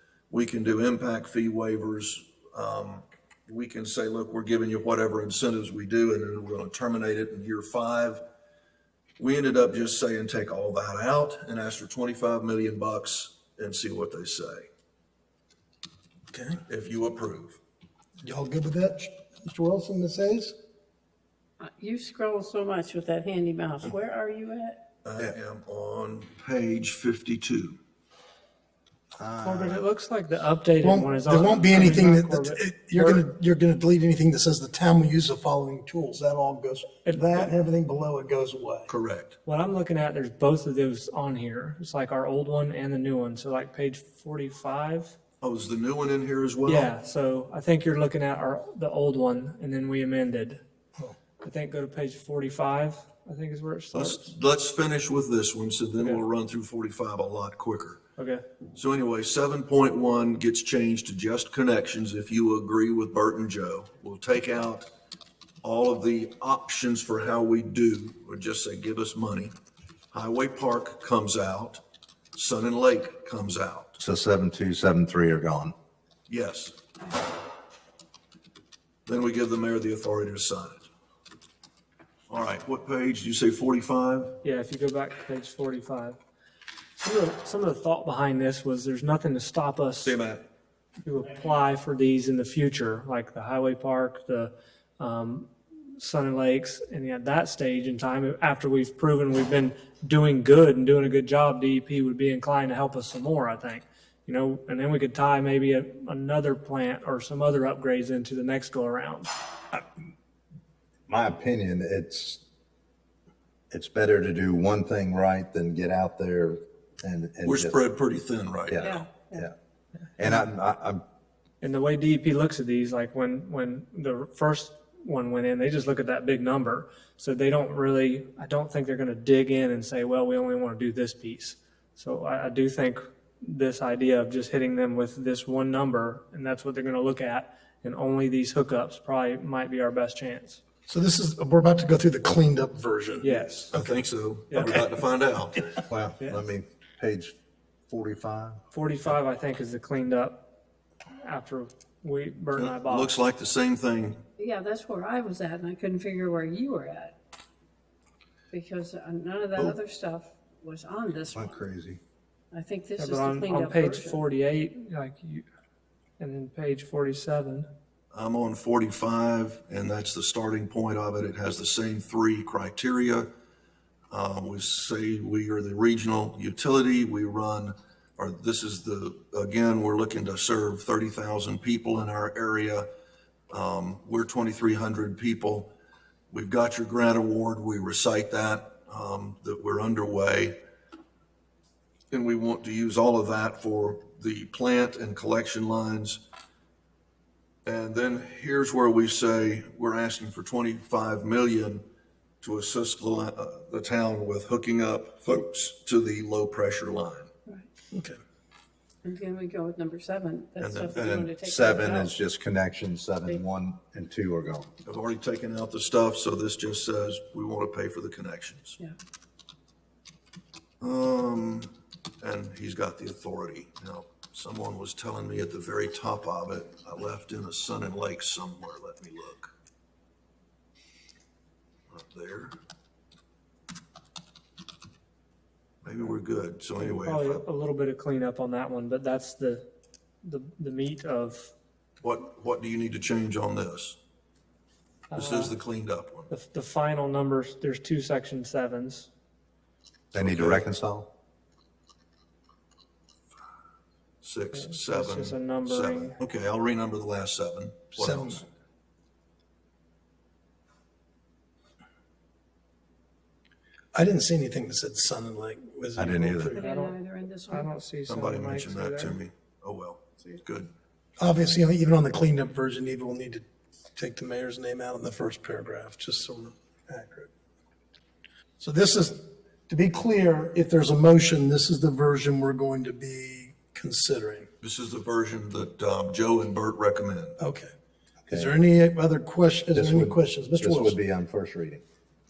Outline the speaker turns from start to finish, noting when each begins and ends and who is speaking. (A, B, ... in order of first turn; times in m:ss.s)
0:00.3-0:08.2 A
0:09.2-0:14.7 A
0:16.3-0:16.6 B
0:16.6-0:17.6 A
0:18.2-0:20.5 B
0:21.6-0:24.8 C
0:25.0-0:27.8 A
0:29.2-0:29.8 D
0:29.4-0:33.3 E
0:30.8-0:38.9 B
0:37.0-0:37.5 E
0:38.9-0:39.4 A
0:39.4-0:45.2 E
0:45.4-0:46.9 A
0:46.6-0:50.6 E
0:51.4-0:54.3 E
0:53.9-0:58.0 A
0:58.2-0:58.4 E
0:58.8-1:04.9 A
1:05.6-1:09.5 A
1:10.1-1:11.8 A
1:12.3-1:14.0 A
1:14.0-1:15.7 D
1:16.3-1:16.8 A
1:19.1-1:20.9 A
1:22.3-1:24.4 A
1:24.4-1:26.2 E
1:27.0-1:30.2 E
1:30.0-1:30.4 A
1:31.0-1:49.3 E
1:51.1-1:52.4 D
1:53.7-1:57.8 D
1:57.4-1:58.9 A
1:58.7-1:59.5 D
1:58.8-1:59.5 C
2:00.2-2:01.0 D
2:01.6-2:20.6 E
2:20.9-2:24.0 B
2:23.2-2:23.8 E
2:23.7-2:25.8 A
2:24.5-2:24.8 E
2:24.6-2:24.8 B
2:25.9-2:27.3 D
2:26.2-2:26.5 E
2:27.9-2:28.6 D
2:28.7-2:30.4 E
2:31.2-2:33.2 E
2:32.6-2:34.2 A
2:34.4-2:37.1 C
2:38.5-2:41.6 C
2:41.3-2:42.0 D
2:42.5-2:44.2 C
2:43.0-2:45.4 E
2:46.2-2:47.7 E
2:48.1-2:53.3 A
2:54.1-3:02.9 A
3:03.5-3:05.7 A
3:06.3-3:10.6 A
3:12.1-3:16.2 A
3:17.6-3:21.8 A
3:22.4-3:27.3 A
3:27.9-3:28.2 B
3:29.0-3:32.1 C
3:30.6-3:31.3 A
3:30.9-3:34.7 D
3:34.8-3:38.8 A
3:40.8-3:49.5 A
3:51.9-3:52.5 A
3:55.8-3:57.4 A
3:56.8-3:59.6 E
4:00.2-4:01.5 E
4:02.0-4:04.0 A
4:05.1-4:05.5 E
4:05.1-4:06.3 A
4:06.3-4:09.1 E
4:10.1-4:11.1 D
4:10.1-4:10.7 A
4:14.2-4:18.4 A
4:14.5-4:16.2 E
4:18.0-4:18.4 B
4:23.9-4:26.6 B
4:26.0-4:26.6 D
4:26.4-4:27.8 C
4:26.6-4:27.0 E
4:27.5-4:29.2 E
4:28.1-4:30.7 A
4:31.2-4:33.4 B
4:33.9-4:37.3 B
4:38.6-4:44.5 B
4:44.6-4:47.4 A
4:47.4-4:47.7 B
4:48.3-4:51.0 B
4:48.3-4:48.6 D
4:49.7-4:51.8 D